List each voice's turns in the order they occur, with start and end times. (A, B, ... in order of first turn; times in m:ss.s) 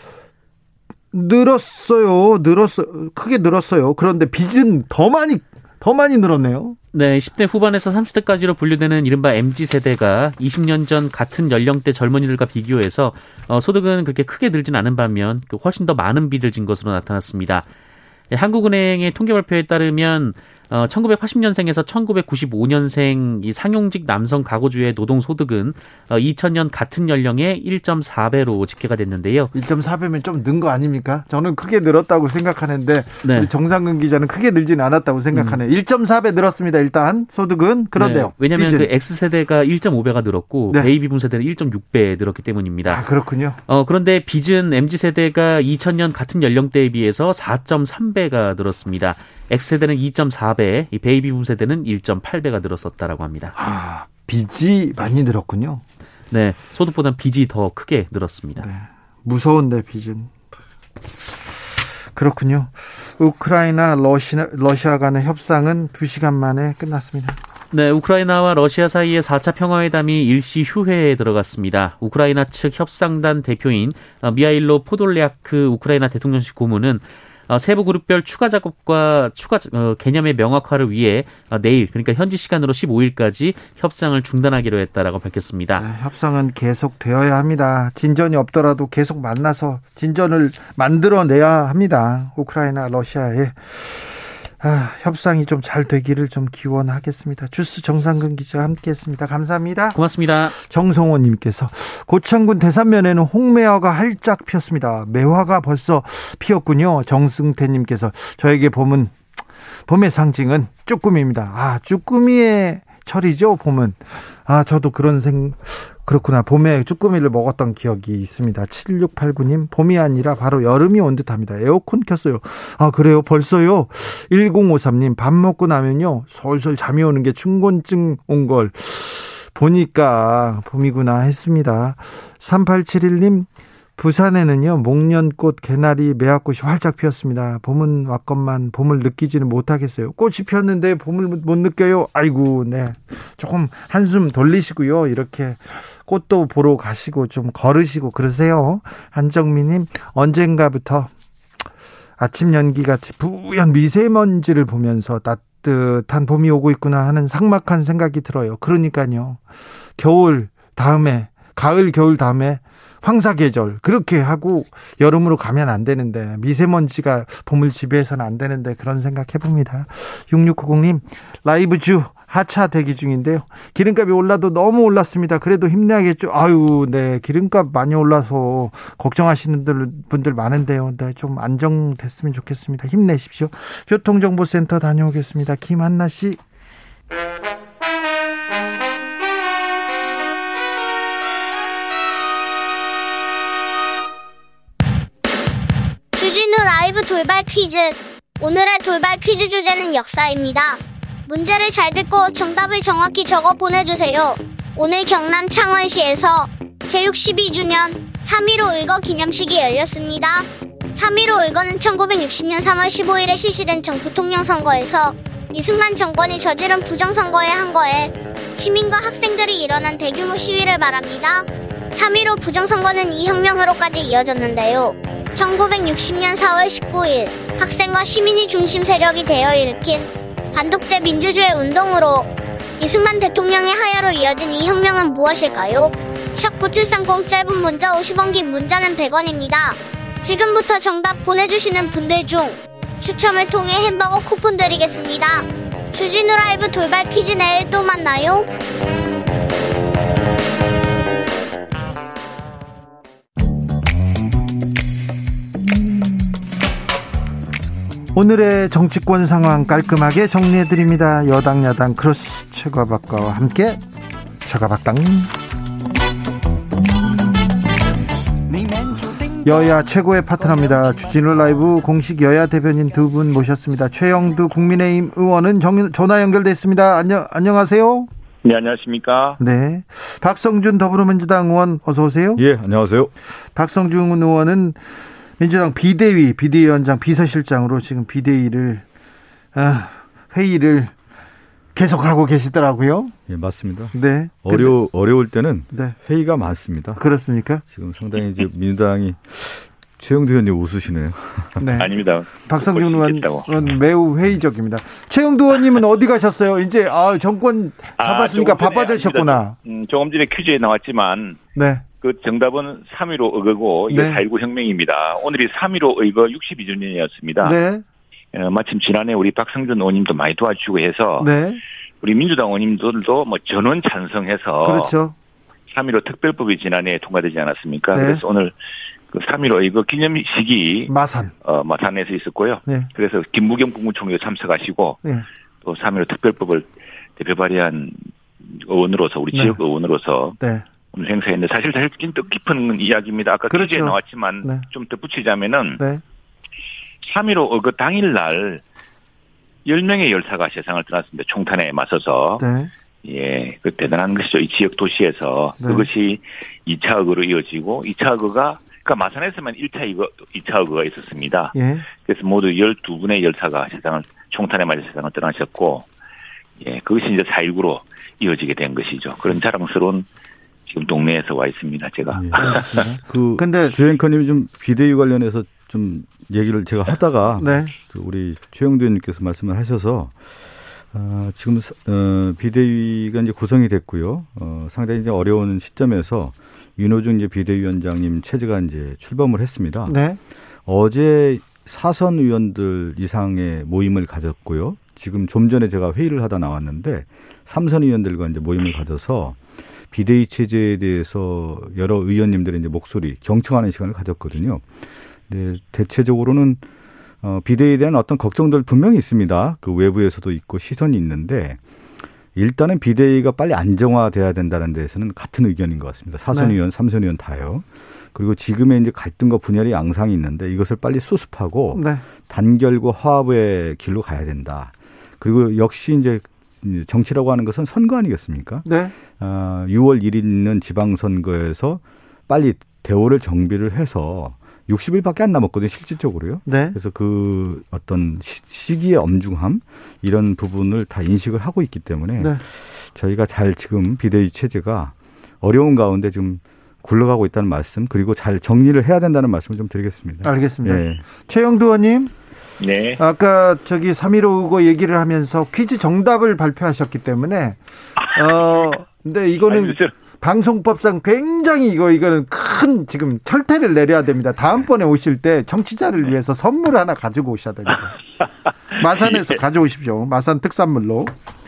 0:01.1-0:06.8 A
0:06.9-0:17.6 B
0:18.3-0:29.5 B
0:29.5-0:38.9 A
0:33.2-0:33.5 B
0:35.3-0:35.6 B
0:38.0-0:43.0 B
0:42.8-0:43.6 A
0:43.7-0:53.6 B
0:53.5-0:55.8 A
0:56.3-0:58.7 B
0:58.6-1:00.3 A
1:02.1-1:07.4 A
1:07.7-1:25.8 B
1:25.8-1:40.0 A
1:39.9-1:40.6 B
1:40.5-1:49.2 A
1:49.9-2:31.1 A
2:32.2-2:39.4 A
2:40.0-3:06.4 A
3:16.1-4:08.5 C
4:18.1-4:23.8 A
4:24.4-4:25.3 A
4:29.3-4:38.1 A
4:38.4-4:39.4 D
4:39.4-4:42.4 A
4:42.4-4:43.1 E
4:43.5-4:44.8 A
4:45.4-4:48.8 A
4:49.5-4:50.9 A
4:51.7-4:53.1 A
4:53.3-4:57.0 E
4:53.9-4:54.7 A
4:55.7-4:56.0 A
4:57.0-4:57.6 A
4:57.7-5:01.7 E
5:01.6-5:01.9 A
5:01.8-5:03.5 D
5:02.5-5:09.6 A
5:08.0-5:11.4 D
5:11.5-5:11.8 A
5:12.0-5:17.6 D
5:13.9-5:14.2 A
5:17.4-5:17.8 A
5:18.3-5:21.3 D
5:21.2-5:21.6 A
5:22.0-5:24.9 D
5:24.6-5:25.1 A
5:25.7-5:28.5 D
5:27.9-5:28.2 A
5:29.1-5:30.9 D
5:30.9-5:31.3 A
5:31.4-5:35.0 D
5:35.6-5:40.4 D
5:39.3-5:39.6 A
5:40.4-5:40.6 A
5:40.9-5:45.8 D
5:43.5-5:44.6 A
5:47.0-5:48.6 D
5:49.6-5:52.4 D
5:52.4-5:52.7 A
5:53.0-6:05.9 D
5:55.6-5:55.9 A
6:01.5-6:01.8 A
6:06.6-6:10.0 D
6:10.7-6:12.9 D
6:12.1-6:20.1 E
6:12.4-6:13.8 A
6:17.4-6:17.7 A
6:20.9-6:30.0 E
6:29.8-6:30.2 A
6:30.6-6:39.4 E
6:39.9-6:44.6 E
6:45.3-6:46.6 E
6:47.2-6:51.6 E
6:52.3-7:08.7 E
6:56.3-6:56.6 A
7:01.7-7:02.0 A
7:08.6-7:08.9 A
7:09.2-7:22.4 E
7:16.4-7:16.8 A
7:22.9-7:31.0 E
7:30.2-7:32.1 A
7:32.6-7:33.0 D
7:33.0-7:37.6 A
7:38.1-7:48.0 A
7:39.5-7:39.9 D
7:48.8-7:49.3 D
7:48.8-7:51.1 A